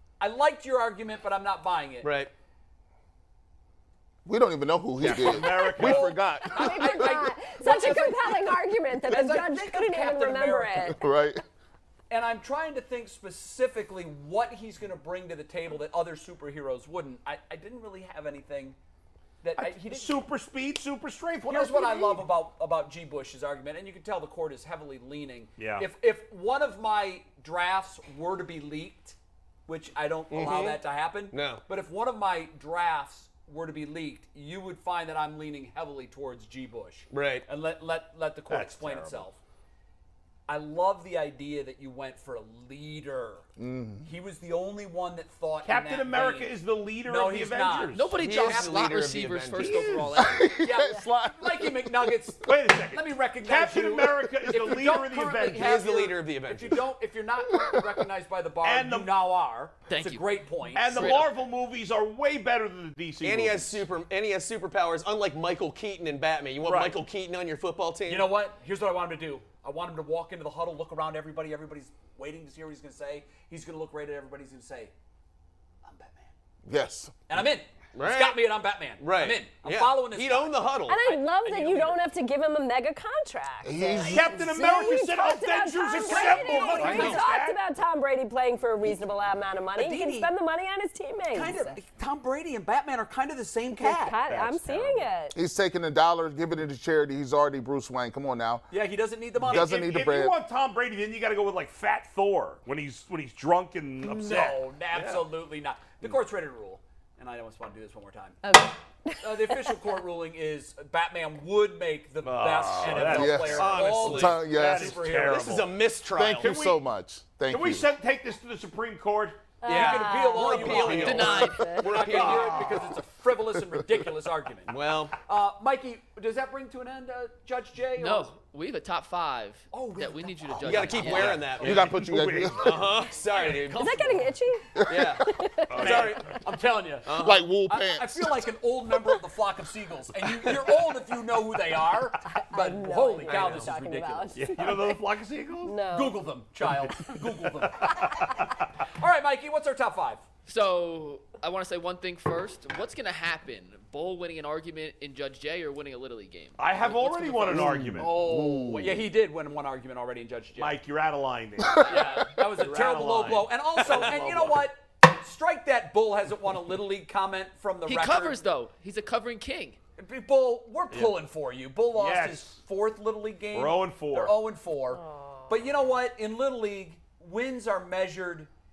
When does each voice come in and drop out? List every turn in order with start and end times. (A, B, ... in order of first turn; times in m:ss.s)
0:00.2-0:02.1 A
0:02.0-0:02.3 B
0:04.2-0:07.2 C
0:05.0-0:06.2 D
0:05.1-0:10.9 A
0:06.5-0:11.0 E
0:10.9-0:11.4 C
0:12.1-0:18.8 A
0:19.4-0:20.2 A
0:19.6-0:22.2 D
0:21.5-0:29.2 A
0:25.6-0:25.9 D
0:29.7-0:39.4 A
0:30.3-0:31.6 B
0:37.1-0:37.5 B
0:38.5-0:39.2 D
0:40.5-0:43.5 A
0:43.6-0:44.1 C
0:44.0-0:46.5 A
0:45.6-0:48.1 D
0:47.0-0:48.9 A
0:47.9-0:50.5 F
0:48.2-0:50.0 B
0:49.6-0:50.0 D
0:50.0-0:52.4 C
0:50.6-1:01.3 A
0:52.4-0:55.9 D
0:55.5-0:56.8 B
0:57.5-0:58.0 C
0:58.6-0:59.1 D
0:59.9-1:01.3 F
1:00.7-1:03.8 D
1:03.2-1:08.3 B
1:06.6-1:07.0 D
1:08.1-1:14.9 A
1:15.8-1:16.3 A
1:16.7-1:17.2 C
1:17.3-1:22.0 A
1:17.9-1:21.0 B
1:20.9-1:31.8 E
1:23.6-1:24.4 C
1:24.0-1:27.6 D
1:26.0-1:27.3 A
1:26.7-1:27.2 B
1:29.8-1:30.3 A
1:31.3-1:34.2 A
1:33.8-1:35.4 E
1:34.3-1:35.0 D
1:35.3-1:38.7 C
1:38.7-1:39.7 A
1:39.4-1:40.4 C
1:39.5-1:45.2 D
1:44.0-1:48.4 A
1:48.4-1:49.8 E
1:49.2-1:55.7 A
1:52.2-1:55.7 D
1:52.9-1:55.1 C
1:53.5-1:54.4 B
1:55.2-1:56.5 B
1:56.1-1:57.9 C
1:56.4-1:56.8 D
1:57.5-1:59.5 D
1:59.6-2:02.2 E
1:59.6-2:02.8 B
1:59.7-2:08.3 A
2:00.9-2:01.8 F
2:02.0-2:02.8 D
2:04.7-2:05.2 B
2:08.0-2:11.5 F
2:09.7-2:12.0 A
2:10.6-2:14.0 B
2:10.9-2:13.0 D
2:11.6-2:12.9 C
2:12.7-2:14.3 A
2:13.7-2:15.9 E
2:14.8-2:15.2 C
2:14.9-2:16.4 B
2:15.7-2:16.4 D
2:15.8-2:24.8 A
2:17.0-2:17.5 B
2:17.2-2:18.6 C
2:22.2-2:25.0 E
2:23.2-2:23.7 B
2:24.4-2:25.8 D
2:25.6-2:26.2 E
2:25.9-2:30.2 A
2:30.5-2:37.6 F
2:36.6-2:38.2 D
2:37.5-2:39.1 C
2:38.0-2:40.8 A
2:40.6-2:44.7 D
2:41.8-2:48.4 A
2:47.9-2:49.8 F
2:50.0-2:58.5 A
2:51.9-2:52.6 D
2:53.5-2:54.4 D
2:54.9-2:55.6 E